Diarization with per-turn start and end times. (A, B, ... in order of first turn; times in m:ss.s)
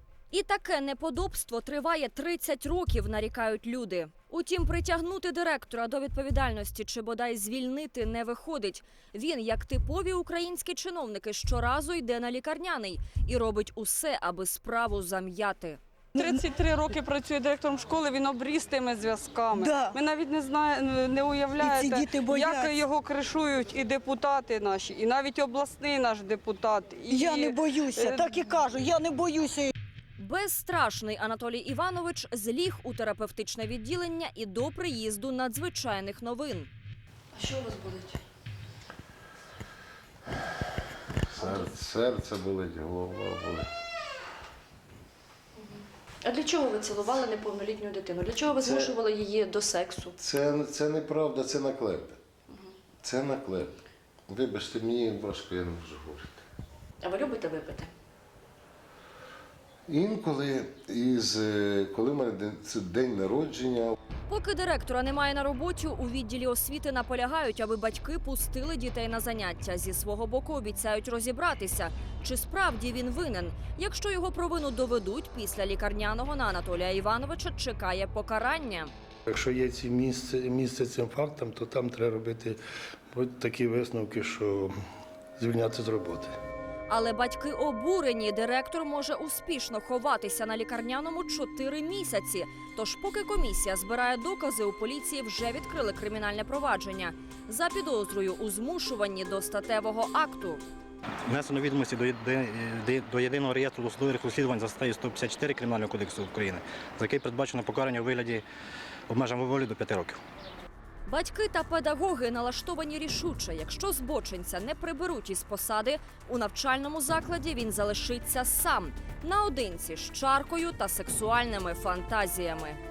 0:00.3-0:15.8 A
0:16.2-0:28.7 B
0:19.6-0:19.9 C
0:22.0-0:22.5 C
0:27.1-0:29.7 C
0:30.2-0:36.7 A
0:37.4-0:38.2 D
0:41.3-0:43.7 E
0:45.6-0:50.1 D
0:48.6-0:49.0 E
0:50.2-0:52.2 E
0:53.0-0:53.8 E
0:54.3-0:56.4 E
0:57.0-0:57.9 D
0:59.9-1:04.0 E
1:04.3-1:18.9 A
1:19.3-1:22.6 F
1:23.1-1:24.7 F
1:25.4-1:26.3 F
1:26.9-1:40.6 A
1:41.3-1:48.4 G
1:49.1-1:50.2 G
1:51.1-2:02.8 A